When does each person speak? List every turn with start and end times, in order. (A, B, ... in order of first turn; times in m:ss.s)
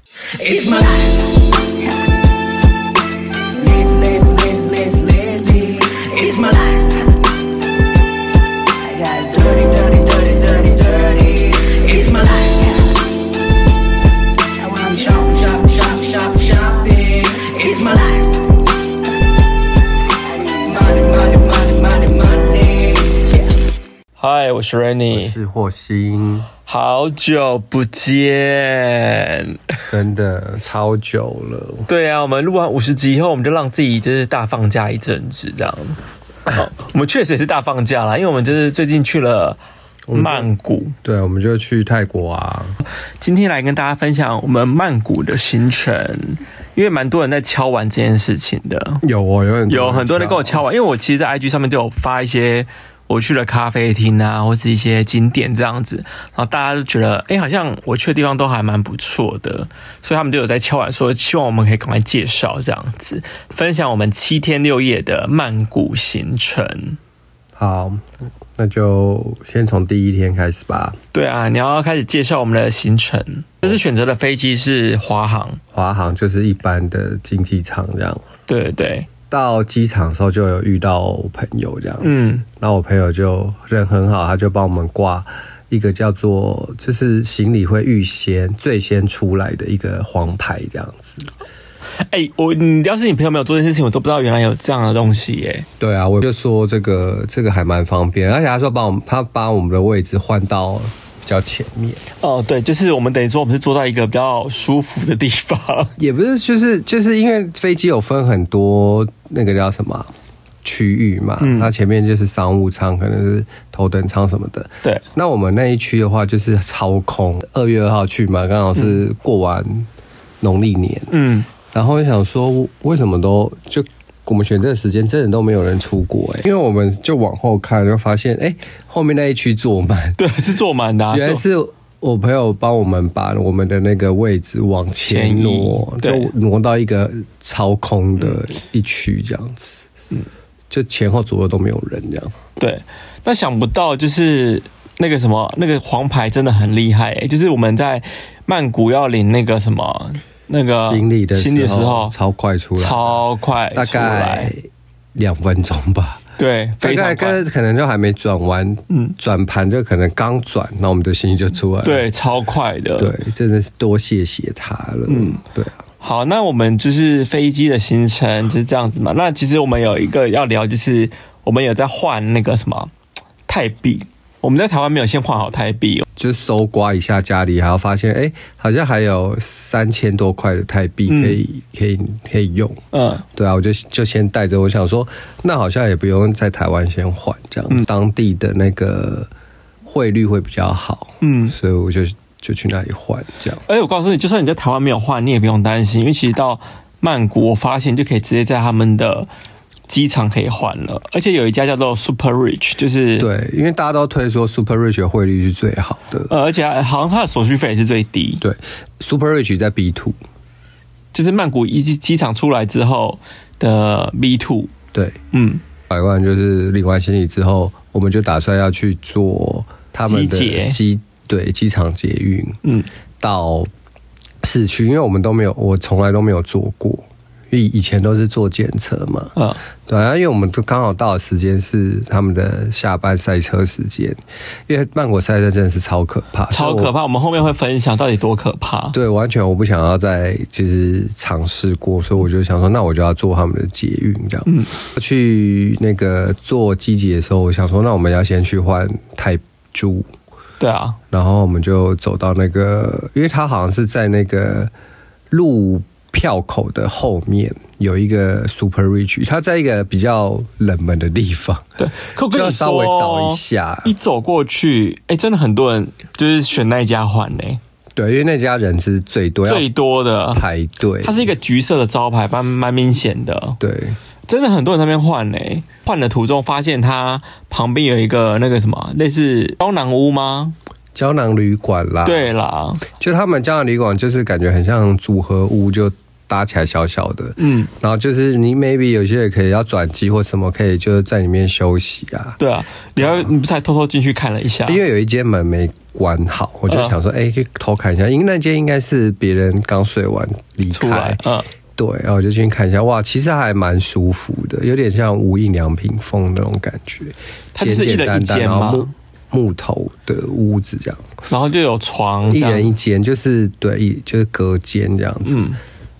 0:00.3-0:01.4 A
0:03.6-0:07.1 A
0:08.8-0:13.0 A
0:14.5-0:18.4 A
0:20.2-0:23.5 A
0:24.2-0:25.3 B
0:25.1-0:26.5 C
0:26.6-0:29.8 B
0:29.9-0:31.9 C
0:31.9-0:39.6 B
0:40.1-0:40.5 C
0:40.1-0:40.9 B
0:41.0-0:42.8 C
0:43.2-0:49.0 B
0:49.0-0:50.6 C
0:49.7-1:07.0 B
1:07.6-1:08.0 C
1:08.6-1:11.0 C
1:11.1-1:15.6 B
1:15.7-1:18.2 C
1:18.5-1:19.1 B
1:19.3-1:31.3 C
1:22.0-1:22.4 B
1:32.0-1:35.6 B
1:35.8-1:42.0 C
1:42.2-1:45.9 B
1:46.0-1:50.1 C
1:50.6-1:59.9 C
1:51.4-1:51.7 B
1:58.7-1:59.0 B
2:00.4-2:01.1 C
2:01.1-2:01.5 B
2:01.7-2:10.2 C
2:10.2-2:11.4 B
2:11.1-2:19.8 C
2:15.0-2:16.3 B
2:20.7-2:22.3 C
2:22.6-2:32.1 B
2:30.8-2:33.2 C
2:32.8-2:34.5 B
2:33.7-2:34.6 C
2:35.1-2:36.2 C
2:36.4-2:37.4 B
2:36.8-2:42.1 C
2:38.9-2:39.1 B
2:41.8-2:43.1 B
2:43.0-2:45.8 C
2:45.1-2:45.4 B
2:46.0-2:52.9 B
2:53.5-2:56.0 B
2:56.2-3:02.8 C
3:01.1-3:01.4 B
3:02.9-3:03.2 B
3:03.3-3:09.3 C
3:09.8-3:13.6 C
3:11.2-3:11.5 B
3:13.6-3:19.3 B
3:19.9-3:23.3 B
3:23.2-3:26.3 C
3:26.3-3:28.4 B
3:28.4-3:30.2 C
3:31.1-3:34.7 B
3:35.3-3:35.6 B
3:35.9-3:42.6 C
3:40.1-3:40.8 B
3:43.2-3:43.7 C
3:44.4-3:49.3 C
3:49.4-3:49.6 B
3:49.8-3:56.9 C
3:56.5-3:59.0 B
3:58.9-4:10.1 C
4:04.4-4:04.7 B
4:10.6-4:11.0 B
4:11.1-4:14.7 C
4:15.3-4:21.6 C
4:21.8-4:27.6 B
4:22.3-4:23.9 C
4:28.0-4:29.7 C
4:29.4-4:30.4 B
4:30.3-4:31.3 C
4:31.0-4:33.6 B
4:33.6-4:34.0 C
4:34.3-4:40.5 B
4:40.9-4:42.3 C
4:42.0-4:42.8 B
4:42.9-4:52.4 C
4:47.4-4:47.7 B
4:52.4-4:54.8 B
4:53.0-4:53.3 C
4:54.6-5:01.2 C
4:56.7-4:57.0 B
5:00.7-5:01.5 B
5:01.8-5:11.0 C
5:07.5-5:08.9 B
5:11.3-5:12.7 B
5:12.3-5:15.5 C
5:15.2-5:15.6 B